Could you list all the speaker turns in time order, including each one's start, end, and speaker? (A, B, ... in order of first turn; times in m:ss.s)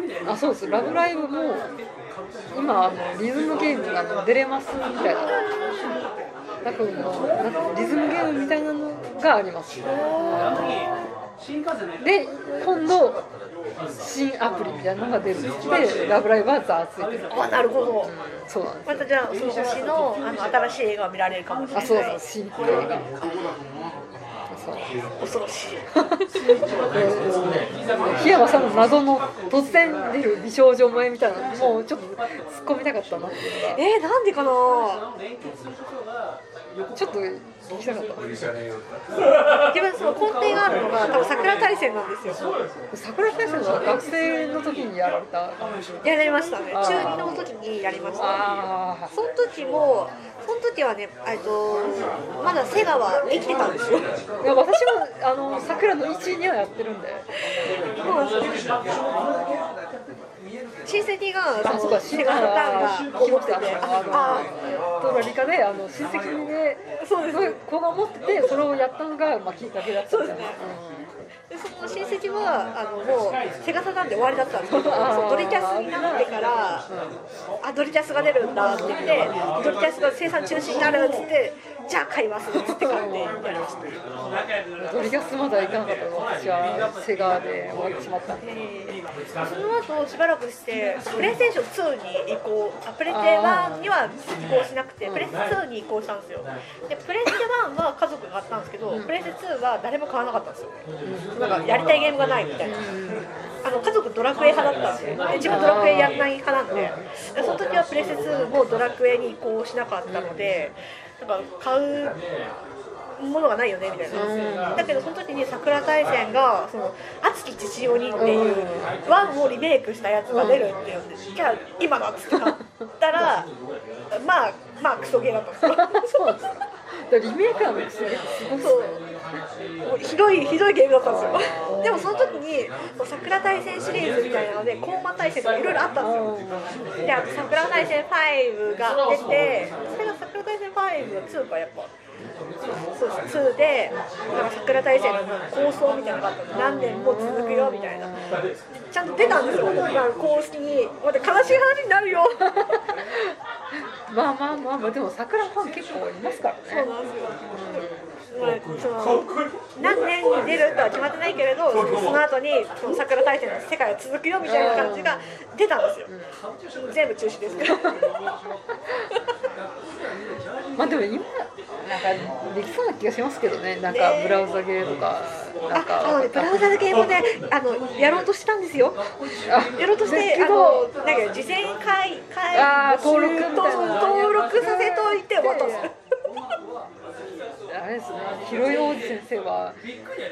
0:00.2-0:01.7 A
0:02.5-0:05.4 A
0:05.0-0:05.9 B
0:06.6-0:11.0 A
0:09.8-0:10.7 B
0:12.0-0:13.2 A
0:14.0-0:17.5 A
0:17.3-0:18.1 B
0:18.0-0:19.1 A
0:18.9-0:22.2 B
0:21.7-0:23.1 A
0:24.5-0:24.9 A
0:25.2-0:25.8 B
0:26.9-0:33.8 A
0:33.8-0:35.0 B
0:37.0-0:38.2 A
0:39.7-0:42.4 B
0:42.9-0:45.7 A
0:46.0-0:48.4 B
0:46.7-0:47.4 A
0:48.2-0:49.1 A
0:49.1-0:54.1 B
0:54.4-0:57.3 A
0:58.0-0:58.7 B
1:00.9-1:04.6 B
1:01.6-1:11.1 A
1:07.0-1:07.6 B
1:10.1-1:10.6 B
1:11.5-1:16.9 B
1:14.7-1:16.2 A
1:17.6-1:24.0 B
1:22.8-1:23.4 A
1:24.8-1:28.4 A
1:28.4-1:40.8 B
1:33.1-1:33.8 A
1:35.0-1:35.3 A
1:41.0-1:41.3 A
1:41.4-1:42.8 B
1:42.6-1:43.5 A
1:43.6-1:52.2 B
1:45.4-1:47.0 A
1:50.1-1:50.5 A
1:53.2-2:03.5 B
1:54.1-1:54.9 A
1:58.2-1:58.9 A
2:00.3-2:00.7 A
2:04.1-2:06.4 B
2:05.7-2:06.5 A
2:07.1-2:09.0 A
2:08.6-2:09.0 B
2:09.8-2:16.2 B
2:11.0-2:12.1 A
2:16.0-2:16.8 A
2:17.0-2:21.9 B
2:23.0-2:28.1 B
2:26.5-2:28.4 A
2:28.9-2:32.7 B
2:32.6-2:33.3 A
2:34.1-2:36.9 A
2:36.7-2:46.1 B
2:37.5-2:38.0 A
2:44.4-2:45.3 A
2:46.1-2:46.3 A
2:46.9-2:48.1 B
2:50.8-2:56.6 A
2:53.9-2:54.5 B
2:55.7-2:59.0 B
2:59.5-3:00.9 A
2:59.8-3:05.9 B
3:02.5-3:05.9 A
3:07.7-3:09.8 A